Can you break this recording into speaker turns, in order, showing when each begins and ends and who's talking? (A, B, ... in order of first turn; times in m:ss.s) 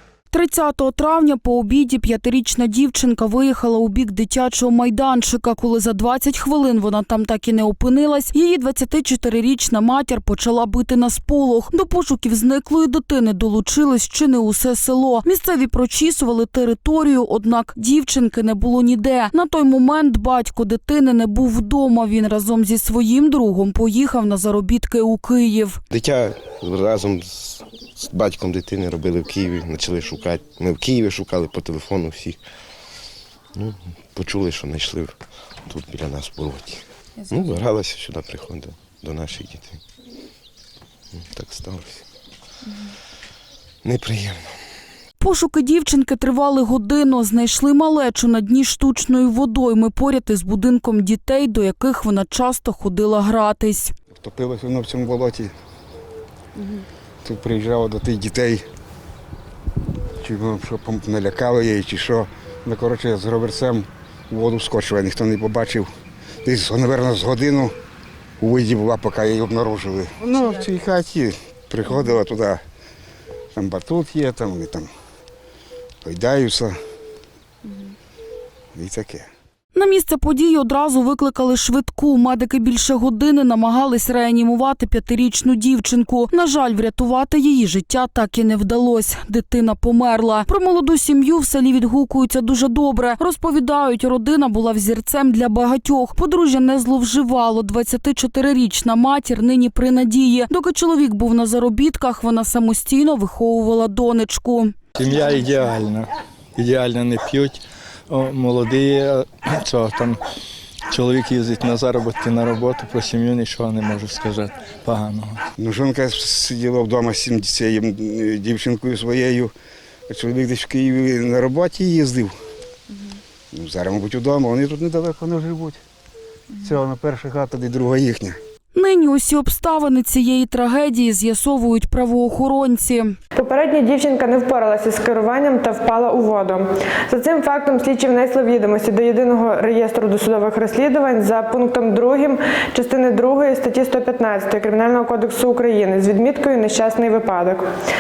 0:00.3-0:25.8 A
0:25.9-0:32.4 B
0:33.6-0:39.8 B
0:41.2-0:42.0 B
0:43.8-0:44.4 B
0:45.2-0:53.9 A
0:54.1-0:55.5 C
0:57.2-0:58.6 C
1:00.2-1:05.9 C
1:06.4-1:07.7 C
1:08.4-1:12.6 C
1:13.6-1:14.9 C
1:16.0-1:16.8 C
1:18.8-1:19.3 C
1:19.7-1:44.7 A
1:45.0-1:50.2 D
1:50.9-1:55.4 D
1:55.6-1:59.5 C
2:00.1-2:02.3 C
2:03.5-2:05.8 C
2:06.6-2:08.4 C
2:08.7-2:13.2 A
2:13.4-2:27.7 E